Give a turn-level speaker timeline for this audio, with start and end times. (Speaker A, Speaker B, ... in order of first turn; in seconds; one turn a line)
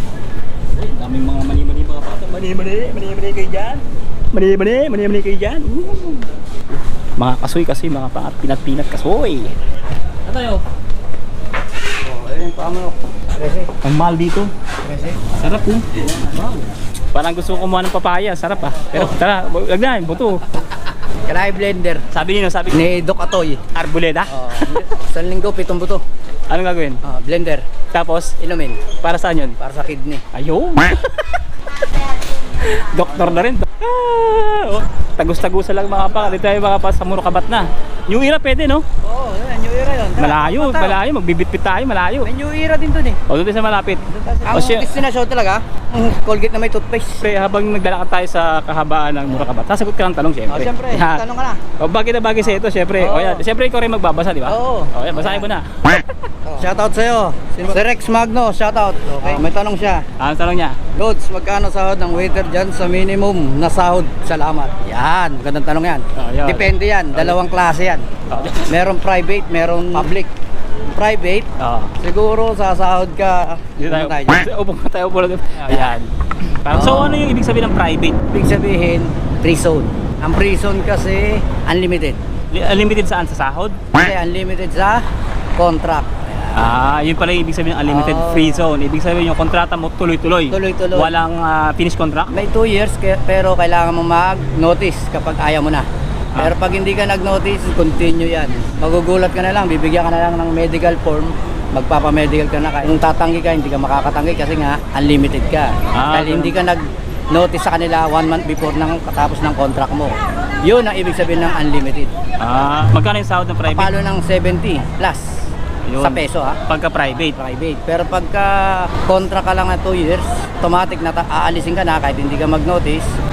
Speaker A: 0.7-6.3
Speaker A: 7.2-9.5
Speaker A: 10.2-10.6
Speaker B: 12.0-13.7
Speaker A: 13.8-14.5
Speaker B: 14.8-15.2
Speaker A: 15.3-20.5
Speaker B: 21.2-22.1
Speaker A: 22.1-22.9
Speaker B: 22.7-23.6
Speaker A: 23.7-24.8
Speaker B: 24.3-26.0
Speaker A: 26.5-27.0
Speaker B: 27.0-27.6
Speaker A: 27.9-28.4
Speaker B: 28.4-28.9
Speaker A: 28.9-29.6
Speaker B: 29.6-30.2
Speaker A: 30.3-31.5
Speaker A: 32.6-38.8
Speaker B: 39.0-41.0
Speaker A: 40.2-42.3
Speaker B: 42.2-43.2
Speaker A: 43.3-44.9
Speaker B: 44.1-47.3
Speaker A: 47.2-51.2
Speaker B: 50.5-51.6
Speaker A: 51.8-56.1
Speaker B: 53.0-53.5
Speaker B: 54.5-55.5
Speaker B: 56.5-60.0
Speaker A: 60.2-60.8
Speaker B: 61.0-68.0
Speaker A: 66.2-67.4
Speaker A: 68.3-68.7
Speaker B: 68.7-70.3
Speaker B: 70.9-74.5
Speaker A: 71.6-72.0
Speaker A: 73.8-78.2
Speaker B: 75.7-76.0
Speaker B: 76.7-77.3
Speaker B: 78.3-82.2
Speaker A: 82.5-83.9
Speaker B: 83.9-85.0
Speaker B: 85.6-86.6
Speaker A: 86.5-92.4
Speaker B: 87.9-88.7
Speaker B: 90.5-91.1
Speaker B: 92.3-95.9
Speaker B: 96.4-112.2
Speaker A: 105.9-106.6
Speaker A: 112.4-114.0
Speaker B: 113.7-115.3
Speaker A: 115.9-117.4
Speaker B: 116.0-116.6
Speaker B: 117.3-123.1